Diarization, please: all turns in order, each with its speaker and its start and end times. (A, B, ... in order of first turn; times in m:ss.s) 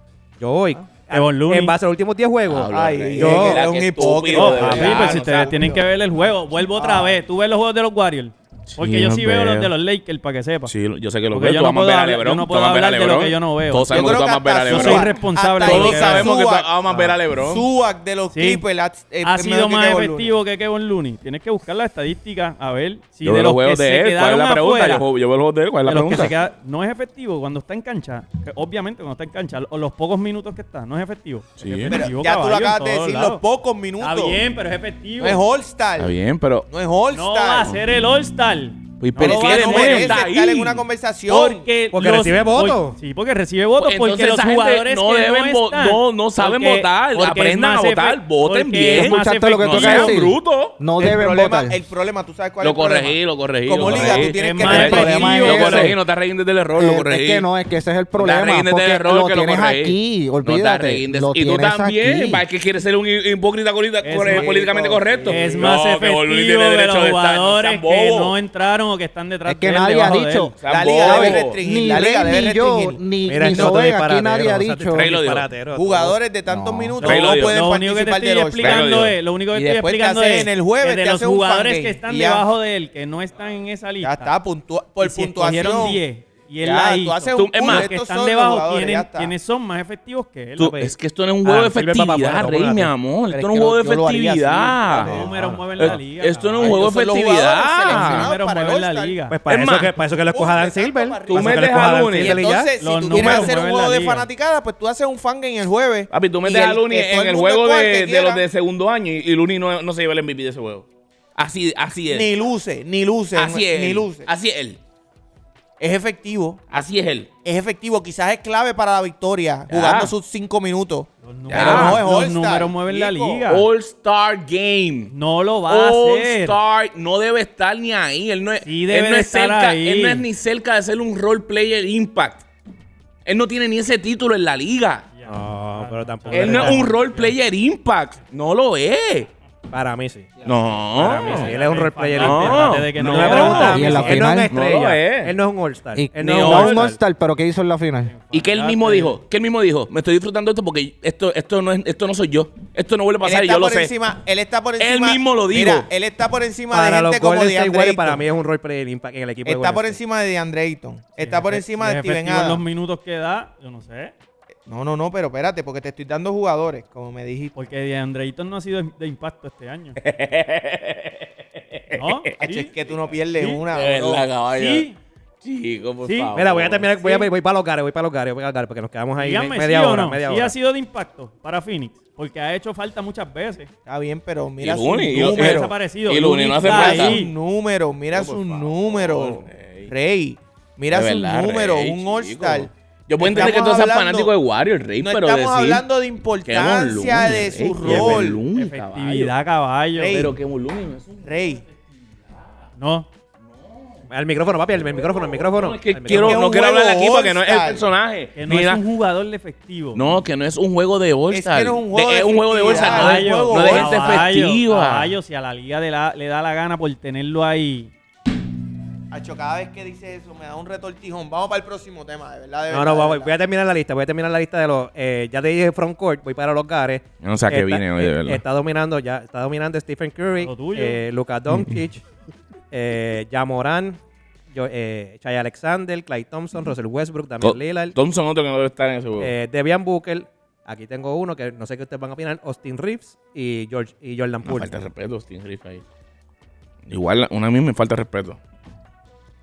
0:00.4-0:03.6 A
0:01.1-0:01.8 B
0:02.5-0:05.5 C
0:02.7-0:05.8 D
0:04.3-0:10.7 B
0:06.8-0:07.2 A
0:08.7-0:09.7 C
0:10.7-0:17.7 C
0:11.3-0:16.3 B
0:13.9-0:16.8 D
0:17.3-0:20.3 D
0:18.3-0:18.6 B
0:19.2-0:25.0 B
0:23.2-0:26.4 C
0:25.9-0:33.4 B
0:31.6-0:32.0 C
0:31.9-0:34.4 D
0:34.0-0:35.4 B
0:35.2-0:36.2 D
0:36.0-0:36.7 C
0:36.7-0:37.8 D
0:37.1-0:40.2 B
0:39.0-0:40.8 C
0:39.2-0:41.7 D
0:41.3-0:50.2 B
0:41.9-0:43.0 A
0:43.8-0:50.8 C
0:48.9-0:51.8 E
0:51.0-0:55.9 D
0:52.6-0:57.5 C
0:53.8-0:56.0 E
0:54.2-0:55.9 B
0:56.8-1:02.4 E
0:58.2-1:08.3 C
1:04.0-1:05.7 A
1:04.1-1:04.5 B
1:05.0-1:05.3 D
1:05.3-1:10.6 B
1:09.5-1:10.5 E
1:10.6-1:11.6 C
1:10.7-1:13.0 D
1:11.0-1:15.1 E
1:13.3-1:16.2 A
1:14.9-1:15.5 C
1:15.8-1:18.9 D
1:16.5-1:17.0 E
1:17.0-1:17.6 C
1:17.0-1:24.3 B
1:18.6-1:19.2 C
1:19.5-1:22.5 D
1:24.0-1:26.0 D
1:25.0-1:30.8 B
1:26.6-1:29.3 D
1:27.4-1:27.9 C
1:30.6-1:38.3 C
1:30.7-1:30.9 A
1:31.4-1:32.9 A
1:33.3-1:35.3 D
1:35.0-1:36.8 B
1:35.0-1:36.0 A
1:36.6-1:39.2 D
1:37.9-1:39.4 B
1:39.3-1:42.7 A
1:39.5-1:40.0 C
1:40.3-1:48.4 D
1:41.3-1:42.6 C
1:42.8-1:44.3 B
1:43.1-1:43.5 C
1:46.1-1:52.3 C
1:52.1-1:54.3 D
1:53.3-1:54.8 C
1:55.8-1:56.6 D
1:56.7-1:57.3 C
1:57.4-2:03.5 D
1:59.7-2:00.1 C
2:01.2-2:03.7 B
2:01.5-2:02.0 C
2:03.5-2:05.1 C
2:05.1-2:06.6 B
2:05.7-2:12.4 C
2:08.6-2:10.3 B
2:13.3-2:15.1 C
2:15.2-2:17.4 B
2:15.3-2:16.9 A
2:16.3-2:19.3 C
2:19.7-2:27.0 A
2:20.4-2:21.6 C
2:21.0-2:24.3 B
2:22.2-2:25.4 C
2:23.7-2:24.5 E
2:26.0-2:28.2 E
2:26.2-2:26.9 C
2:28.3-2:29.1 B
2:28.3-2:33.9 C
2:28.6-2:29.0 A
2:33.2-2:38.3 D
2:34.8-2:35.9 C
2:36.7-2:40.0 A
2:39.4-2:42.6 D
2:41.2-2:44.1 B
2:44.7-2:47.6 D
2:47.6-2:50.0 B
2:50.0-2:52.3 C
2:51.9-2:52.7 B
2:52.4-2:54.3 D
2:53.4-2:53.6 B
2:53.7-2:54.9 C
2:54.5-2:55.0 B
2:55.4-2:57.2 C
2:56.0-2:56.3 B
2:56.3-3:00.6 A
2:59.2-3:03.7 B
3:03.9-3:05.7 D
3:04.6-3:07.2 C
3:05.2-3:07.3 B
3:06.6-3:14.3 D
3:08.1-3:09.9 C
3:10.9-3:15.8 C
3:15.0-3:18.4 D
3:16.4-3:19.3 C
3:17.8-3:20.3 B
3:20.0-3:20.4 D
3:20.1-3:21.3 C
3:21.2-3:21.6 D
3:22.8-3:23.1 B
3:24.1-3:26.4 A
3:24.7-3:28.8 C
3:26.1-3:27.9 D
3:28.4-3:30.0 B
3:30.0-3:35.2 C
3:31.3-3:34.3 D
3:32.6-3:37.9 B
3:39.1-3:43.4 D
3:42.7-3:52.0 A
3:47.2-3:48.4 C
3:50.4-3:51.0 B
3:52.7-3:58.0 A
3:57.4-3:59.3 C
3:59.2-4:04.8 A
4:04.4-4:05.8 C
4:06.9-4:08.4 C